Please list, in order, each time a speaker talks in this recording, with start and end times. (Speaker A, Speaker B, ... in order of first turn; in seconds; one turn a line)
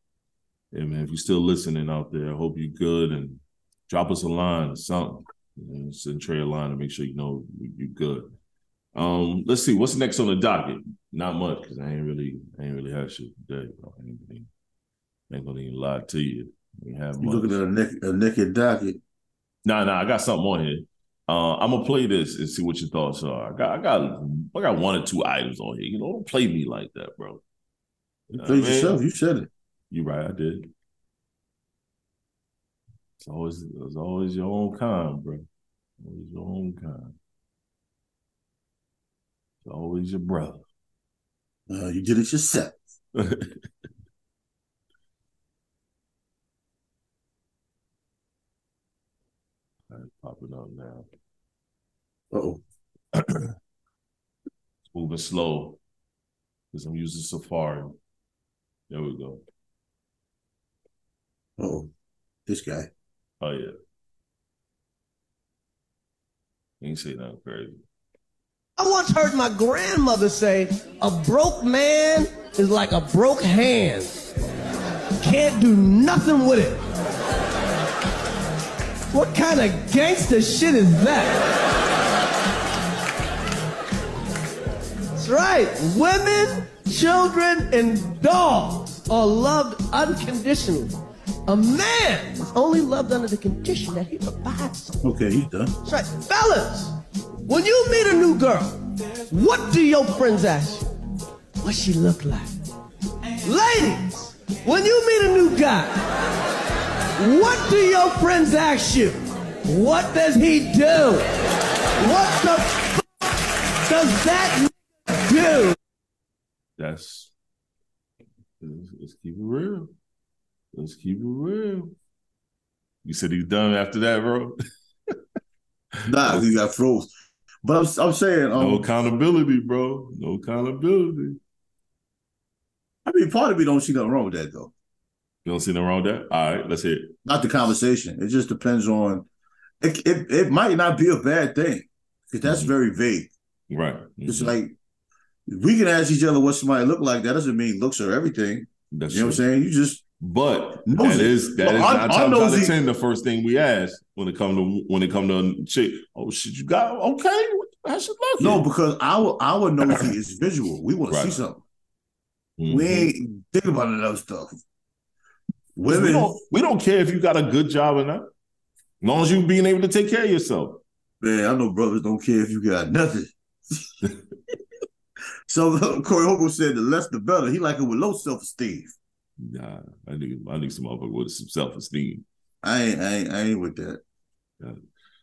Speaker A: 0.7-8.3
Speaker A: 8.9-14.5
Speaker A: 15.3-17.6
Speaker B: 17.2-19.0
Speaker A: 19.6-27.4
Speaker A: 28.3-29.0
Speaker B: 28.4-29.5
Speaker A: 29.9-30.7
Speaker A: 33.2-35.5
Speaker A: 36.0-37.1
Speaker A: 39.6-40.6
Speaker B: 41.7-42.7
Speaker A: 43.1-43.6
Speaker A: 49.9-51.0
Speaker B: 52.3-52.6
Speaker A: 53.1-53.5
Speaker A: 54.9-55.8
Speaker A: 56.7-57.9
Speaker A: 58.9-59.4
Speaker B: 61.6-61.9
Speaker B: 62.5-62.9
Speaker A: 63.4-63.7
Speaker A: 66.8-67.8
Speaker C: 68.8-74.2
Speaker C: 75.2-76.8
Speaker C: 79.1-81.5
Speaker C: 85.2-90.9
Speaker C: 91.5-95.0
Speaker B: 95.0-95.7
Speaker C: 95.8-100.9
Speaker C: 101.6-102.6
Speaker C: 103.4-106.0
Speaker C: 107.2-111.3
Speaker C: 112.0-113.0
Speaker C: 113.8-115.8
Speaker A: 116.8-117.3
Speaker A: 118.6-119.9
Speaker A: 120.7-121.9
Speaker A: 123.0-124.6
Speaker B: 126.0-127.1
Speaker B: 127.6-128.8
Speaker A: 128.6-131.4
Speaker B: 133.0-134.7
Speaker A: 135.4-137.1
Speaker B: 137.2-139.2
Speaker B: 139.8-143.3
Speaker A: 142.4-142.7
Speaker A: 143.7-144.6
Speaker B: 144.2-144.7
Speaker B: 145.5-150.0
Speaker A: 148.9-149.4
Speaker A: 150.2-158.7
Speaker B: 150.8-152.7
Speaker B: 158.4-161.6
Speaker A: 161.1-161.4
Speaker A: 162.6-163.1
Speaker B: 162.7-164.5
Speaker B: 165.8-166.3
Speaker A: 165.9-168.3
Speaker A: 169.0-170.8
Speaker B: 171.2-174.0
Speaker B: 175.5-178.9
Speaker A: 179.4-182.2
Speaker B: 182.6-184.0